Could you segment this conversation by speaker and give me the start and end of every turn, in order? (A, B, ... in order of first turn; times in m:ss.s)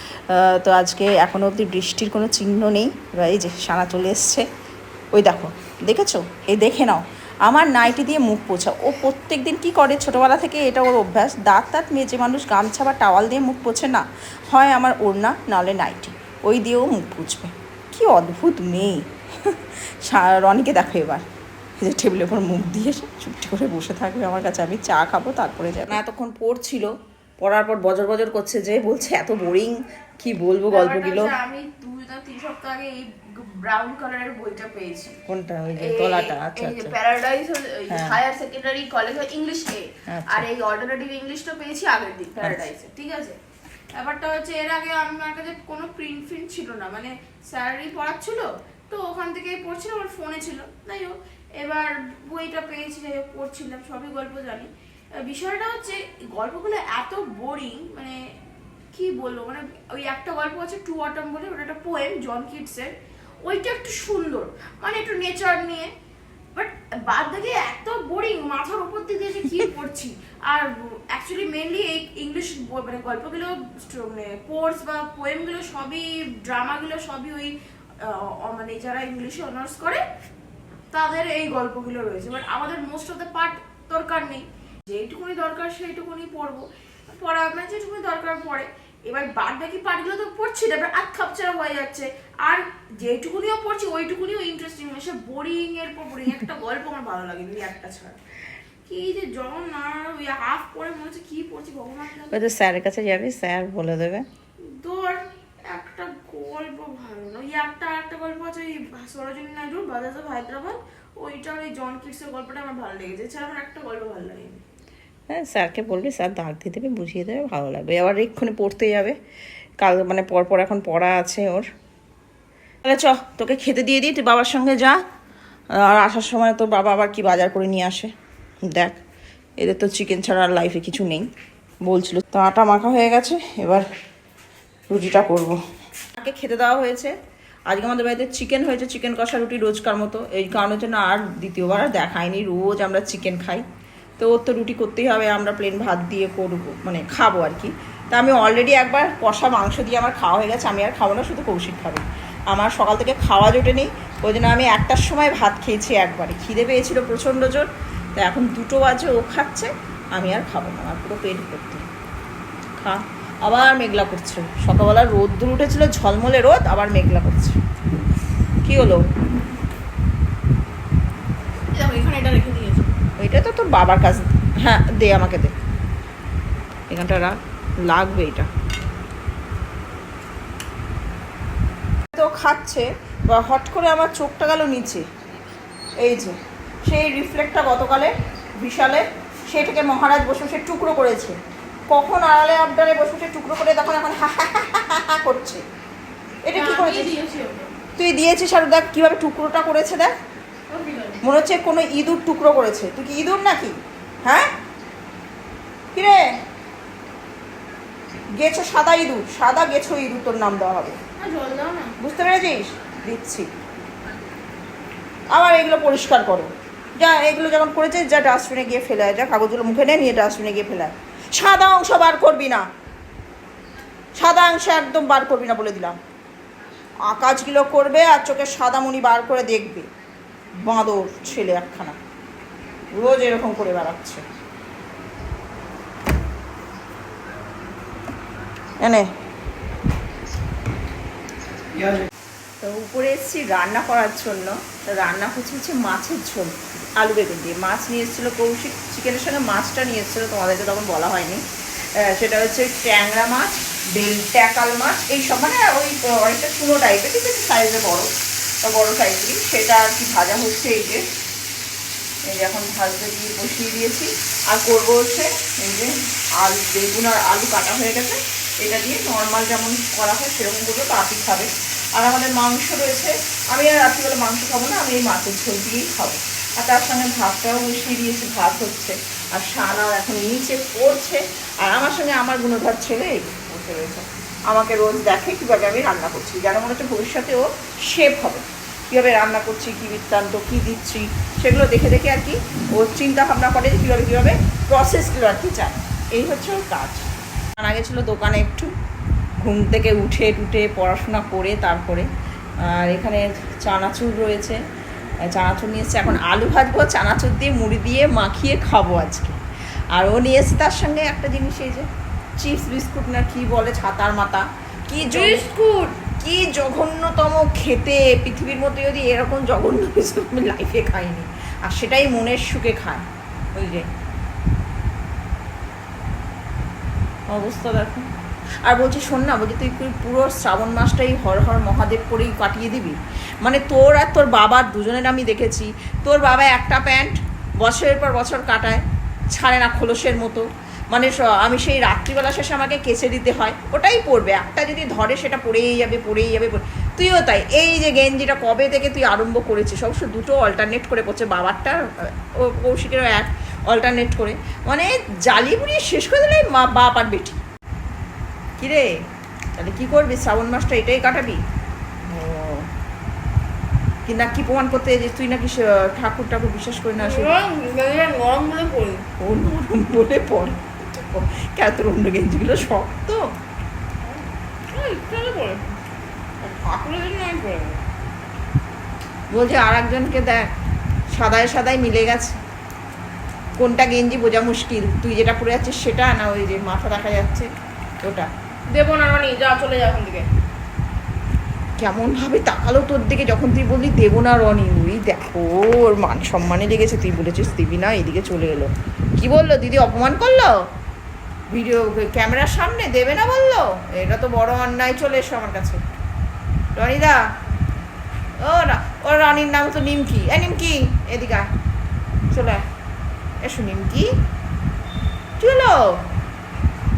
0:00.3-0:04.5 A
0:05.2-0:21.2 A
0:21.8-0:26.9 A
0:27.4-0:31.3 A
0:30.7-0:35.2 B
0:35.3-0:36.9 A
0:35.8-0:43.4 B
0:37.9-0:38.2 A
0:40.1-0:40.5 A
0:43.9-0:58.2 B
0:58.9-1:05.9 B
1:06.6-1:20.0 B
1:20.9-1:38.2 B
1:38.9-1:42.4 B
1:42.3-1:44.3 A
1:44.6-1:54.6 B
1:55.3-1:59.2 A
1:59.8-2:01.7 A
2:02.8-2:05.0 A
2:05.8-2:08.1 A
2:08.6-2:09.0 A
2:09.6-2:11.3 A
2:11.9-2:13.9 A
2:14.9-2:15.6 A
2:16.2-2:17.2 A
2:17.7-2:23.6 A
2:24.2-2:41.8 A
2:42.8-2:47.6 A
2:48.6-2:49.0 A
2:51.7-2:52.9 B
2:53.2-2:55.5 A
2:56.9-2:58.5 A
3:02.1-3:05.0 A
3:06.0-3:11.4 A
3:11.9-3:15.6 A
3:16.4-3:17.1 A
3:16.5-3:17.7 B
3:18.0-3:20.2 A
3:20.7-3:21.2 B
3:21.2-3:24.5 A
3:26.0-3:26.2 A
3:28.4-3:31.0 A
3:31.2-3:32.0 B
3:32.0-3:33.5 A
3:35.3-3:42.6 A
3:44.2-3:46.0 A
3:47.1-3:49.9 A
3:50.7-3:52.0 A
3:53.0-3:54.2 A
3:58.8-3:59.1 A
4:02.6-4:11.4 A
4:12.0-4:18.1 A
4:18.6-4:21.0 A
4:22.3-4:58.7 A
4:59.4-5:02.1 A
5:02.6-5:04.6 A
5:05.3-5:09.4 A
5:10.0-5:11.9 A
5:12.4-5:15.4 A
5:15.0-5:16.0 B
5:16.2-5:23.0 A
5:23.6-5:23.9 A
5:27.3-5:28.1 A
5:28.6-5:38.8 A
5:39.3-5:57.4 A
5:58.6-5:58.9 A
5:59.6-6:01.4 A
6:02.0-6:02.7 A
6:04.1-6:07.3 A
6:07.0-6:09.1 B
6:09.2-6:13.2 A
6:14.1-6:15.7 B
6:16.4-6:17.8 B
6:19.3-6:20.5 A
6:21.1-6:22.4 A
6:23.6-6:27.5 A
6:28.0-6:28.3 A
6:28.7-6:30.3 B
6:31.8-6:40.5 A
6:41.5-6:45.8 A
6:46.8-6:47.2 A
6:48.4-6:51.5 A
6:52.3-6:52.6 A
6:53.4-6:54.1 A
6:55.4-6:55.8 A